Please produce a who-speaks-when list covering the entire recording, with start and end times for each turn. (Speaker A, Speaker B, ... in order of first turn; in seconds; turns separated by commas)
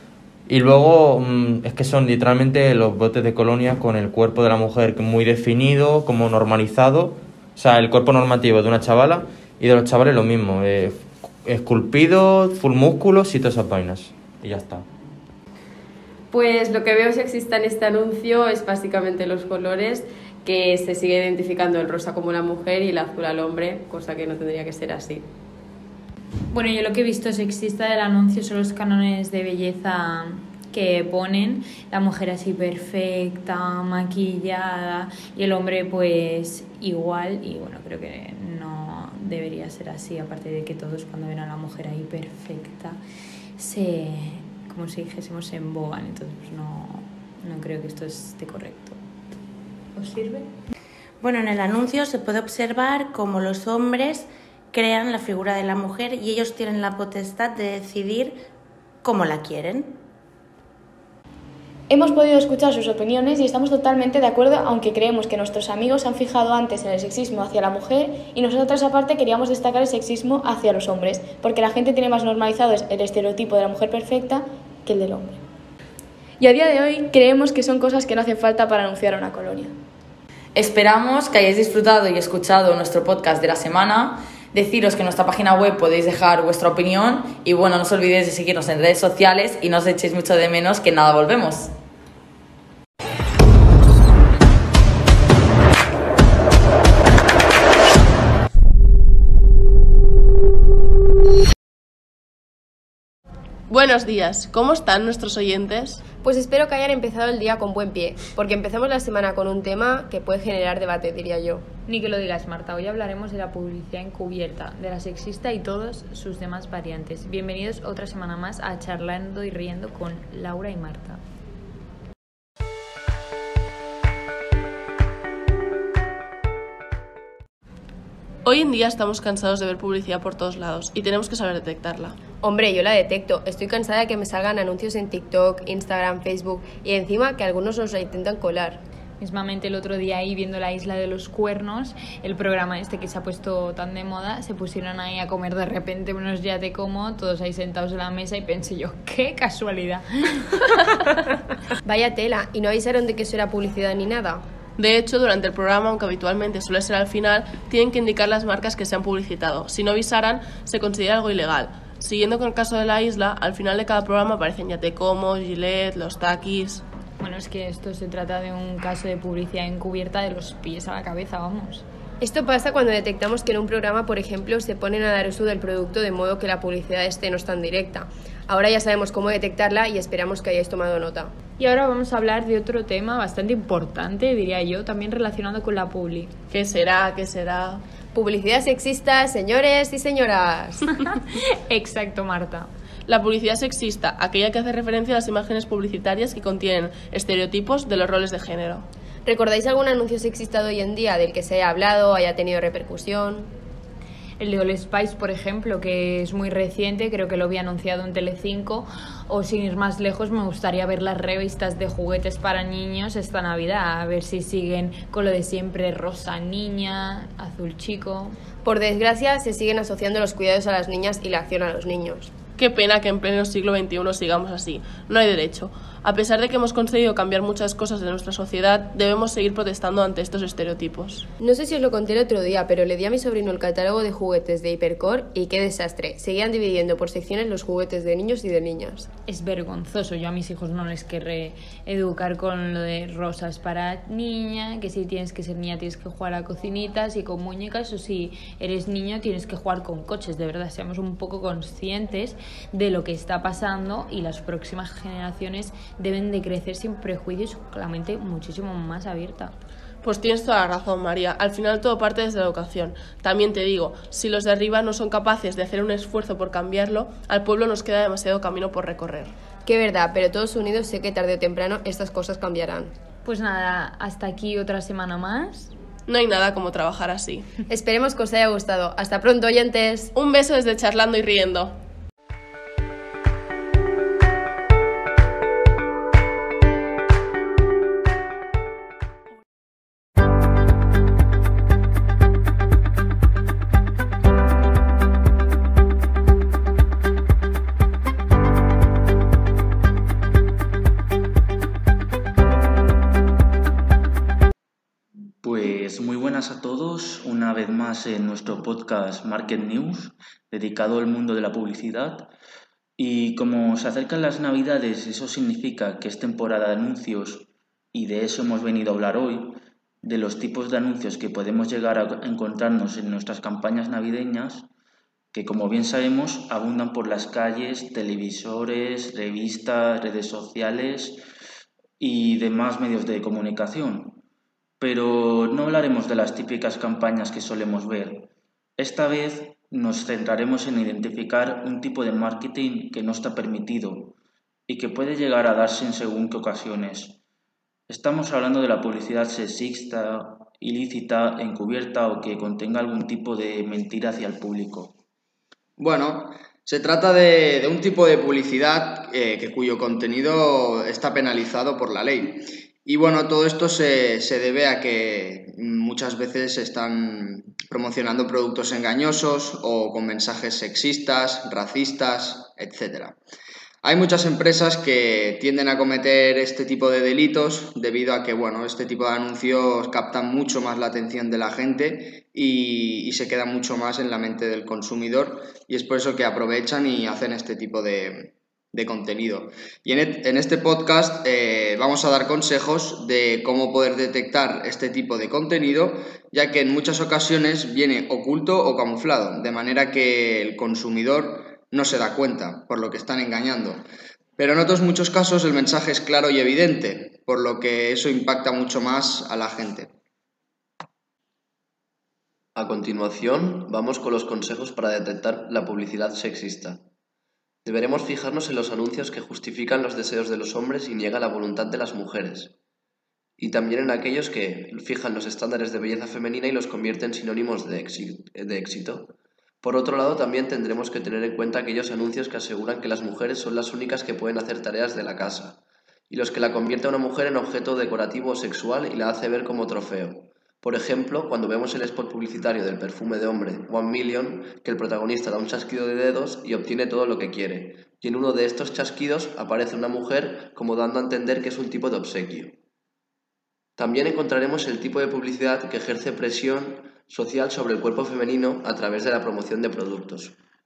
Speaker A: 0.5-14.8, Speaker B: 16.3-25.2, Speaker C: 26.5-43.0, Speaker C: 43.6-49.0, Speaker C: 50.0-50.5, Speaker D: 51.2-58.4, Speaker D: 59.0-59.9, Speaker E: 61.9-75.4, Speaker E: 76.4-79.7, Speaker F: 80.5-91.7, Speaker G: 103.7-106.0, Speaker H: 106.2-111.7, Speaker C: 111.8-121.2, Speaker G: 128.4-132.2, Speaker H: 132.4-138.8, Speaker C: 139.2-150.5, Speaker H: 151.8-154.4, Speaker G: 154.8-166.8, Speaker C: 167.2-171.8, Speaker H: 172.2-181.3, Speaker C: 181.6-186.3, Speaker G: 186.5-187.8, Speaker H: 188.1-190.8, Speaker C: 191.7-192.7, Speaker G: 193.1-198.8, Speaker H: 199.2-203.5, Speaker C: 204.4-218.4, Speaker H: 218.6-222.3, Speaker G: 222.6-231.2, Speaker H: 231.4-239.1, Speaker C: 239.2-259.5, Speaker G: 260.0-269.3, Speaker H: 269.6-272.9, Speaker C: 273.2-275.7, Speaker G: 276.1-277.5, Speaker H: 277.7-280.1, Speaker G: 280.1-281.8, Speaker I: 305.4-312.3, Speaker I: 313.0-324.7, Speaker I: 325.3-331.2, Speaker I: 332.0-334.2, Speaker I: 334.8-344.1, Speaker I: 344.7-347.2, Speaker I: 347.9-354.9, Speaker J: 355.8-373.2, Speaker J: 373.8-403.8, Speaker J: 404.4-409.9, Speaker K: 412.5-416.8, Speaker K: 417.6-422.5, Speaker K: 423.4-452.5, Speaker K: 453.8-460.3